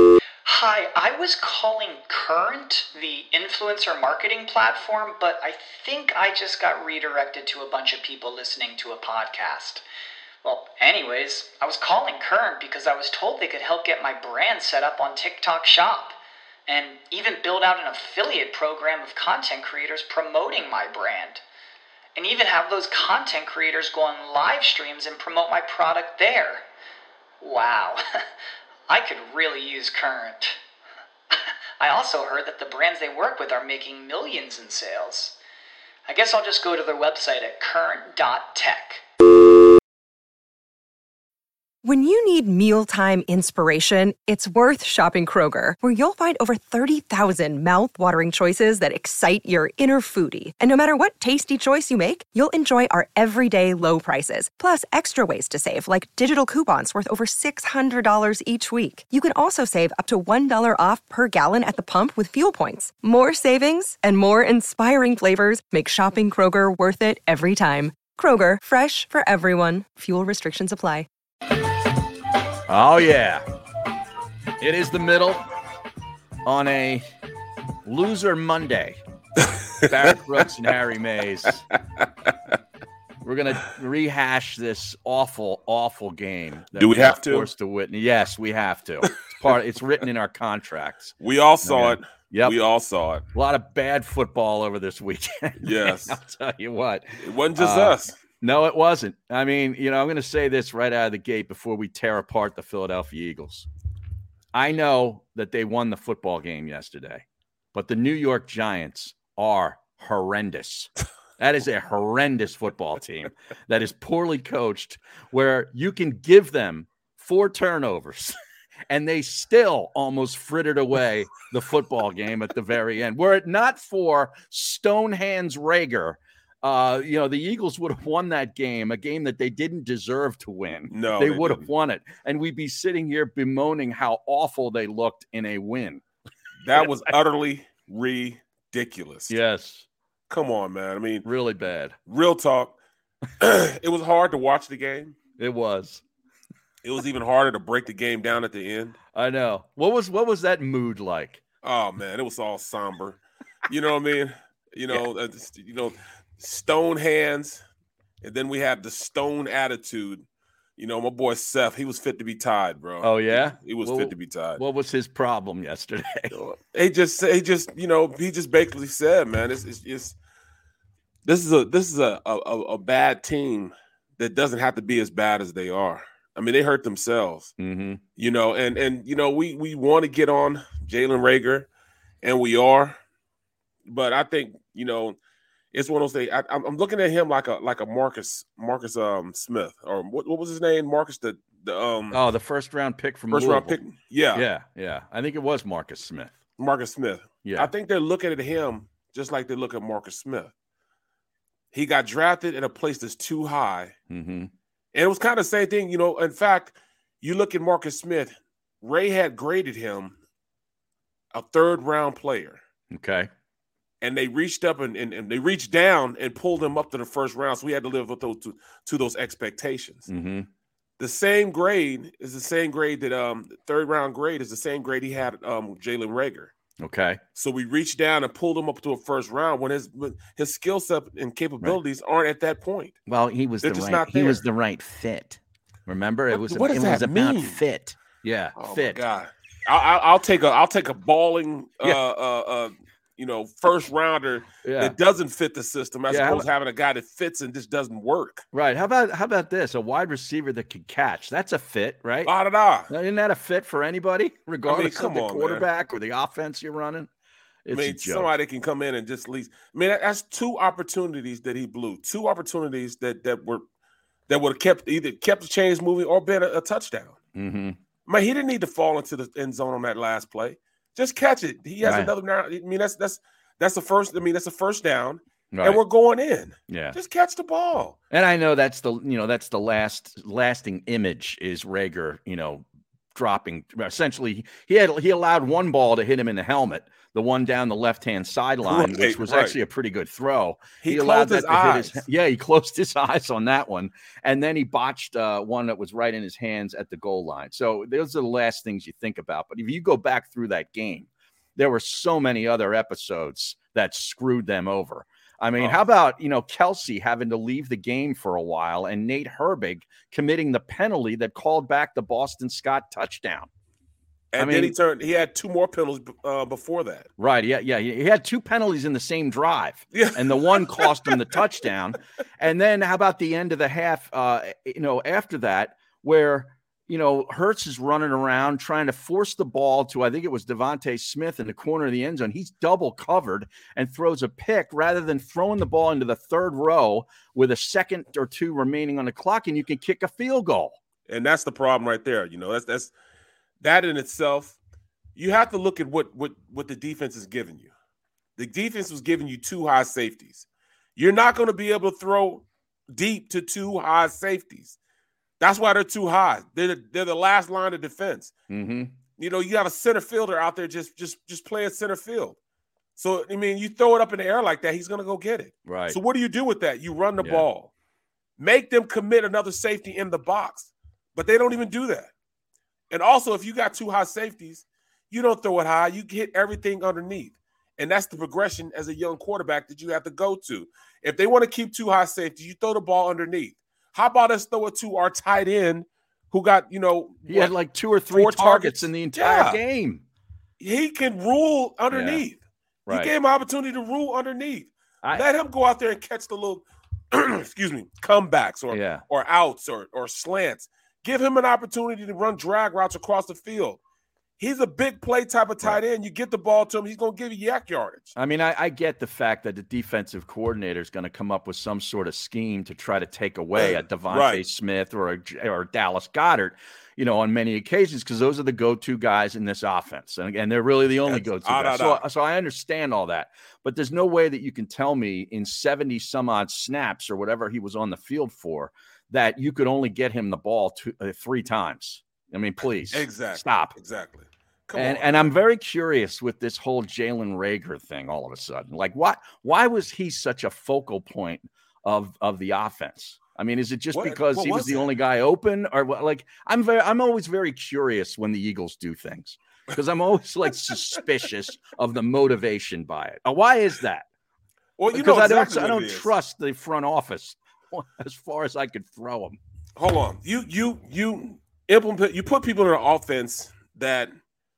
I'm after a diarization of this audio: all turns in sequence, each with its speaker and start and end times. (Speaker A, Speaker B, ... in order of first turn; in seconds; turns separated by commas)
Speaker A: 0.4-9.8, Speaker A: 10.4-21.4, Speaker A: 22.1-26.6, Speaker A: 27.4-28.0, Speaker A: 28.9-30.6, Speaker A: 31.8-35.4, Speaker A: 36.0-39.0, Speaker B: 41.8-71.1, Speaker C: 72.7-73.4, Speaker C: 74.6-75.4, Speaker C: 76.4-77.0, Speaker C: 77.8-79.0, Speaker D: 79.4-80.1, Speaker C: 79.8-81.6, Speaker D: 82.0-82.3, Speaker C: 83.2-92.6, Speaker D: 86.7-87.5, Speaker D: 91.2-93.2, Speaker C: 93.3-103.7, Speaker D: 95.6-96.2, Speaker D: 97.2-98.2, Speaker C: 104.5-118.3, Speaker C: 118.9-136.0, Speaker D: 130.9-131.7, Speaker D: 136.6-139.3, Speaker C: 139.3-139.8, Speaker D: 140.3-141.3, Speaker C: 141.2-141.9, Speaker D: 142.1-142.8, Speaker D: 143.4-145.1, Speaker C: 145.4-146.0, Speaker D: 146.8-149.0, Speaker C: 149.1-151.4, Speaker D: 151.6-157.6, Speaker D: 158.2-160.2, Speaker D: 160.8-164.6, Speaker C: 163.0-166.4, Speaker D: 166.3-170.2, Speaker D: 171.2-177.5, Speaker C: 177.6-178.0, Speaker D: 178.2-181.7, Speaker D: 182.2-183.0, Speaker D: 183.9-185.2, Speaker D: 185.7-192.2, Speaker C: 192.1-193.8, Speaker D: 193.3-194.4, Speaker C: 194.3-196.4, Speaker D: 196.6-200.5, Speaker C: 197.4-197.7, Speaker D: 201.7-203.9, Speaker C: 204.1-204.5, Speaker D: 204.9-210.2, Speaker D: 211.3-212.6, Speaker C: 212.9-213.3, Speaker D: 214.0-220.1, Speaker C: 220.1-220.5, Speaker D: 221.0-226.5, Speaker C: 226.8-227.2, Speaker D: 227.3-233.0, Speaker C: 233.1-239.0, Speaker D: 233.6-234.4, Speaker D: 236.3-237.6, Speaker D: 238.6-248.4, Speaker C: 244.6-244.9, Speaker C: 246.1-246.5, Speaker C: 248.5-252.3, Speaker D: 252.2-252.9, Speaker C: 252.9-257.1, Speaker D: 254.6-255.7, Speaker C: 257.6-258.3, Speaker D: 257.7-263.6, Speaker D: 264.3-267.2, Speaker C: 267.3-267.8, Speaker D: 268.1-278.0, Speaker C: 271.8-272.1, Speaker C: 275.5-275.8, Speaker C: 276.7-277.0, Speaker C: 278.1-313.5, Speaker D: 288.6-289.6, Speaker D: 290.8-292.0, Speaker D: 314.3-317.1, Speaker C: 314.4-314.7, Speaker C: 317.2-340.8, Speaker D: 319.9-321.4, Speaker D: 341.1-342.9, Speaker D: 343.6-344.6, Speaker D: 345.1-347.7, Speaker D: 348.4-354.8, Speaker D: 355.4-358.3, Speaker C: 358.5-358.9, Speaker D: 359.2-362.4, Speaker D: 363.0-367.7, Speaker C: 365.6-366.0, Speaker C: 367.2-367.5, Speaker D: 368.4-372.1, Speaker D: 372.9-387.5, Speaker C: 387.3-390.0, Speaker D: 388.1-389.6, Speaker D: 390.6-403.8, Speaker C: 391.9-392.2, Speaker C: 392.9-393.1, Speaker C: 398.7-399.0, Speaker D: 404.4-408.1, Speaker C: 408.1-433.7, Speaker D: 413.6-414.4, Speaker D: 421.1-422.0, Speaker D: 432.9-435.3, Speaker C: 434.7-454.1, Speaker D: 443.9-444.9, Speaker D: 454.8-456.1, Speaker C: 454.9-459.4, Speaker D: 459.8-464.1